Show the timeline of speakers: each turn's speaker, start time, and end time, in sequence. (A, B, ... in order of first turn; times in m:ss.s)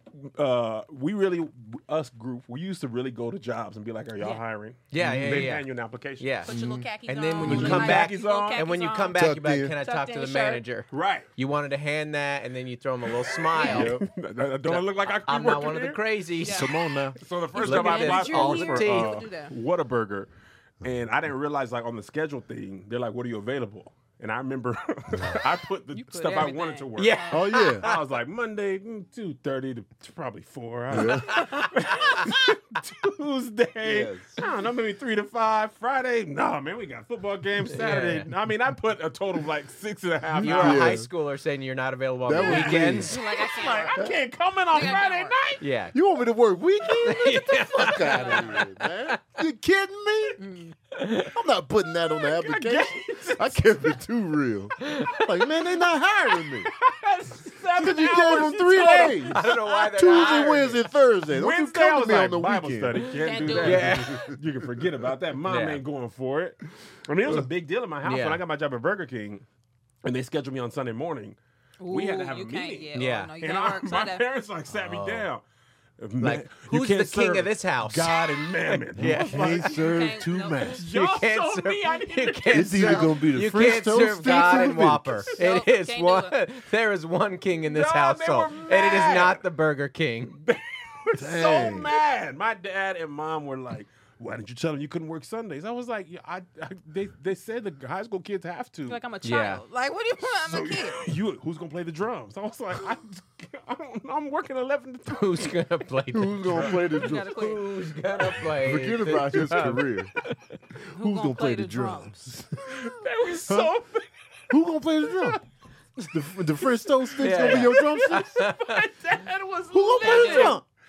0:00.1-0:06.3 A
0:04.9-0:05.7 B
0:05.0-0:05.5 C
0:06.2-0:14.0 B
0:06.4-0:09.2 D
0:06.5-0:06.8 C
0:07.4-0:08.0 C
0:07.4-0:08.7 A
0:09.1-0:09.8 C
0:09.8-0:10.6 D
0:10.9-0:11.3 A
0:13.5-0:13.9 D
0:13.6-0:16.0 A
0:13.6-0:14.0 C
0:14.6-0:16.7 B
0:16.4-0:16.7 D
0:16.4-0:17.2 C
0:17.2-0:27.3 A
0:17.5-0:19.5 D
0:17.6-0:19.2 B
0:25.9-0:27.5 D
0:27.0-0:28.0 B
0:27.3-0:27.8 C
0:27.8-0:41.0 A
0:30.9-0:31.5 C
0:31.2-0:31.7 B
0:31.3-0:32.3 D
0:33.8-0:34.4 C
0:37.7-0:38.3 B
0:40.4-0:41.1 C
0:40.4-0:43.2 B
0:42.2-0:43.2 C
0:42.4-0:44.0 D
0:43.3-0:45.6 A
0:44.7-0:45.4 D
0:45.6-0:45.9 B
0:45.9-0:50.4 C
0:47.0-0:49.2 B
0:48.0-0:48.6 D
0:50.4-0:50.7 D
0:50.9-0:51.3 B
0:51.1-0:56.7 C
0:52.3-0:53.6 A
0:54.8-0:55.5 B
0:56.7-0:59.4 A
0:57.8-1:03.0 C
0:59.2-1:00.8 B
0:59.6-0:59.9 D
1:01.3-1:09.4 A
1:03.1-1:04.1 D
1:03.5-1:04.2 B
1:05.5-1:05.8 B
1:08.0-1:08.4 B
1:10.0-1:15.4 A
1:11.8-1:14.2 D
1:12.9-1:13.3 B
1:14.7-1:15.3 B
1:16.0-1:19.7 A
1:16.2-1:19.8 B
1:19.0-1:20.9 C
1:19.6-1:20.6 D
1:20.8-1:23.1 A
1:20.8-1:30.4 B
1:22.5-1:25.3 C
1:25.4-1:26.4 D
1:27.7-1:29.4 A
1:30.4-1:39.0 A
1:31.1-1:31.9 C
1:38.9-1:41.1 D
1:39.2-1:39.6 B
1:40.2-1:45.6 A
1:45.1-1:50.4 B
1:46.1-1:47.6 C
1:46.5-1:46.9 A
1:46.9-1:47.6 D
1:48.3-1:50.1 C
1:50.8-1:52.9 C
1:50.9-1:52.2 D
1:52.7-1:54.1 A
1:54.5-1:55.4 C
1:56.0-1:58.4 C
1:57.2-1:58.8 B
1:57.4-2:00.6 A
1:59.7-2:00.6 C
2:00.0-2:00.6 D